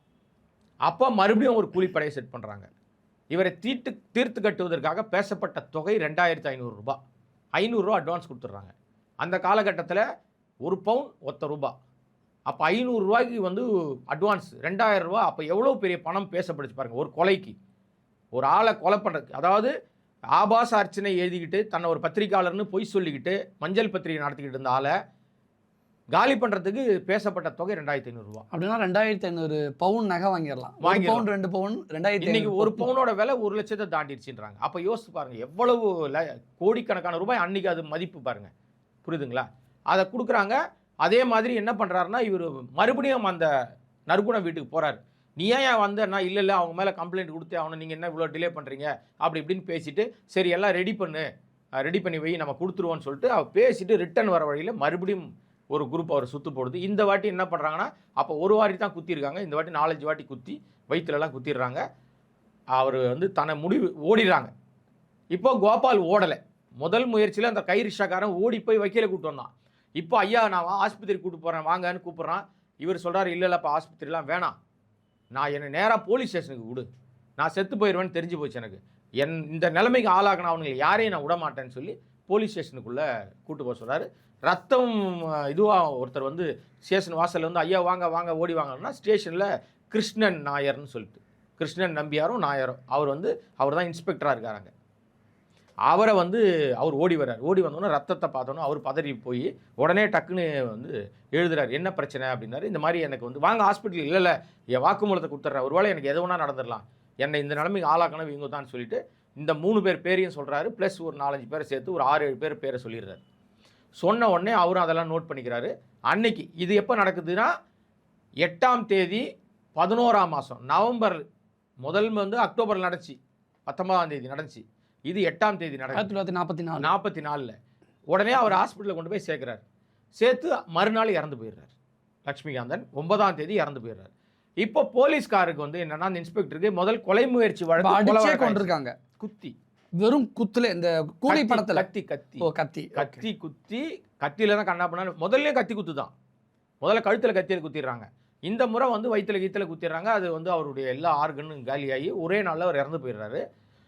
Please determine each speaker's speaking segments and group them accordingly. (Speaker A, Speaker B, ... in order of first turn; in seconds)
Speaker A: 0.8-2.7, 3.3-7.0, 7.5-10.0, 10.7-11.7, 12.5-17.6, 18.3-19.7, 20.4-24.9, 26.1-28.4, 30.8-31.2, 32.2-38.5, 39.0-43.5, 44.1-51.3, 51.8-61.8, 62.8-64.5, 65.3-74.5, 75.3-76.9, 77.4-94.7, 95.9-113.2, 114.0-117.5, 118.4-119.2, 119.8-121.2, 121.8-126.1, 126.8-127.5, 128.1-129.6, 130.2-131.7, 132.3-134.1, 134.6-139.5, 141.3-142.4, 142.9-146.1, 146.8-153.4
Speaker B: 28.5-32.9, 125.9-126.9, 137.8-138.9, 140.0-141.8, 142.4-143.2